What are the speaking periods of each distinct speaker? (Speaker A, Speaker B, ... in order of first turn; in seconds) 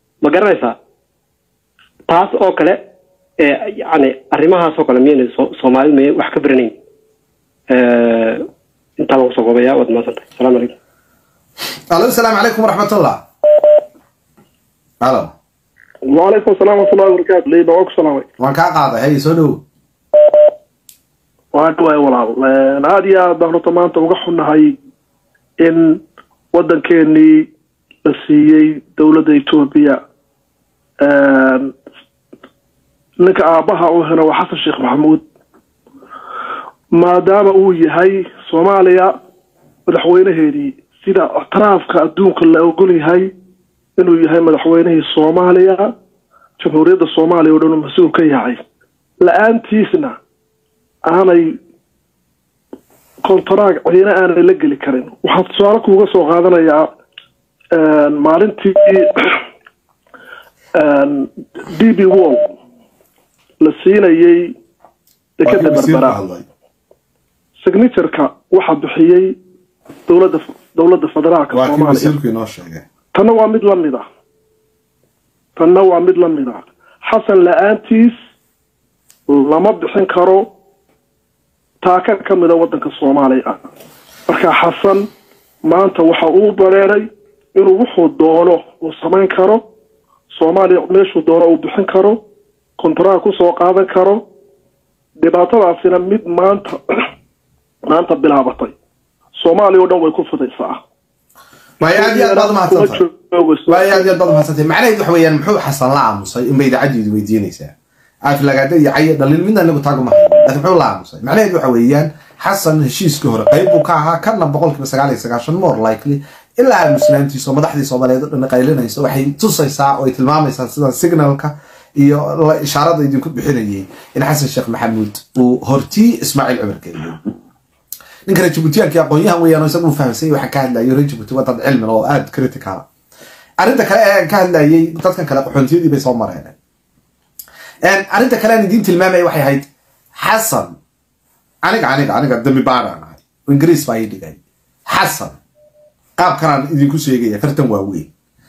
Speaker A: 0.2-0.8, 2.1-2.8, 3.4-6.7, 7.7-8.5, 9.0-10.7
Speaker B: 11.9-13.2, 15.0-15.3, 18.4-19.6, 65.5-66.5, 71.5-72.8, 101.8-103.0, 103.7-107.7, 108.2-127.2, 128.3-132.9, 133.6-136.5, 137.8-140.8, 141.6-145.4, 146.2-148.1
Speaker C: 16.1-18.3, 21.5-24.8, 25.6-26.0, 26.5-27.5, 28.1-30.0, 31.0-31.7, 33.2-35.2, 37.0-39.2, 39.9-43.3, 44.0-45.9, 46.6-48.6, 49.2-50.2, 51.1-51.6, 53.2-56.9, 57.7-59.4, 60.8-62.5, 63.6-64.5, 65.4-66.2, 67.6-69.3, 70.1-72.2, 73.1-74.0, 75.6-78.2, 79.3-80.5, 81.8-83.6, 84.3-85.1, 85.7-89.6, 90.3-92.2, 92.8-94.2, 95.2-96.8, 97.9-98.8, 99.4-100.8, 101.9-104.1